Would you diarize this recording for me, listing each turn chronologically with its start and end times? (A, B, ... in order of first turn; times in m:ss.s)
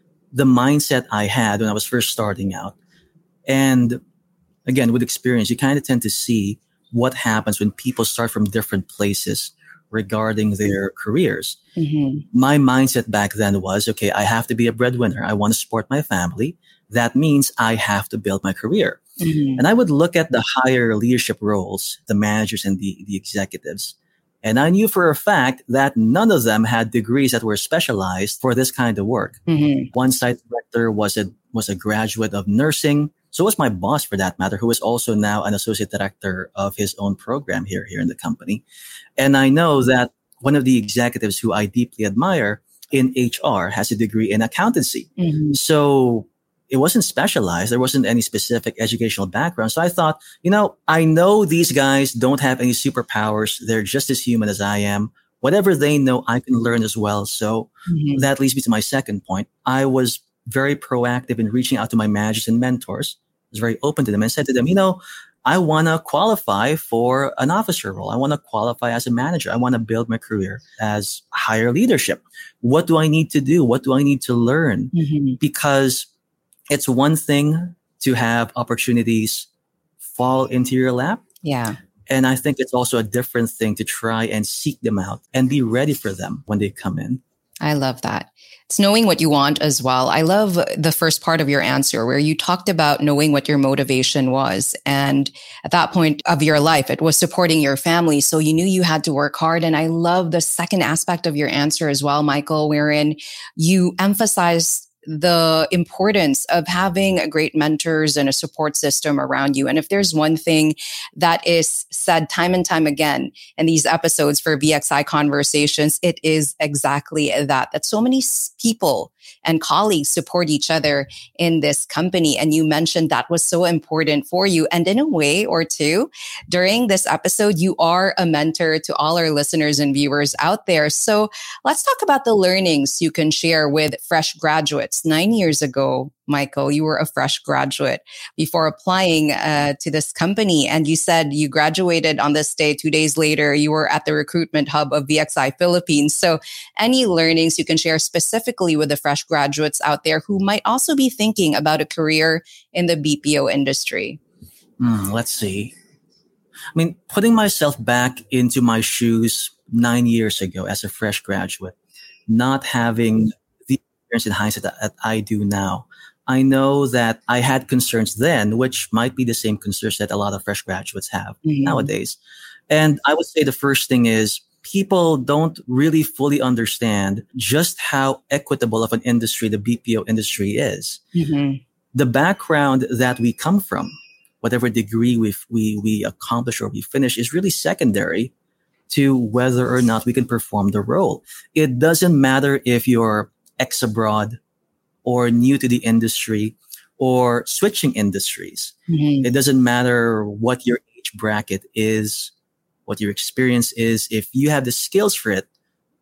0:00.3-0:02.8 A
0:03.5-0:04.0 A
0:04.7-0:11.6 A
0:11.8-0:12.2 B
0:12.3-0:19.0 A
0:19.2-0:19.6 B
0:19.6-0:29.4 A
0:29.5-0:29.9 B
0:29.9-0:38.6 A
0:39.2-1:16.1 A
0:45.2-0:45.6 B
0:57.9-0:58.2 B
1:14.9-1:15.4 B
1:16.7-1:19.5 A
1:20.1-1:21.2 A
1:21.4-1:21.8 B
1:22.1-1:27.2 A
1:27.6-2:34.2 B
2:34.8-2:35.7 A
2:36.7-2:41.8 A
2:42.3-2:52.2 A
2:51.4-2:51.9 B
2:52.7-3:01.0 A
3:01.2-3:01.6 B
3:01.9-3:08.3 A
3:08.9-3:14.4 A
3:15.0-3:22.3 A
3:18.9-3:19.3 B
3:22.9-3:25.5 A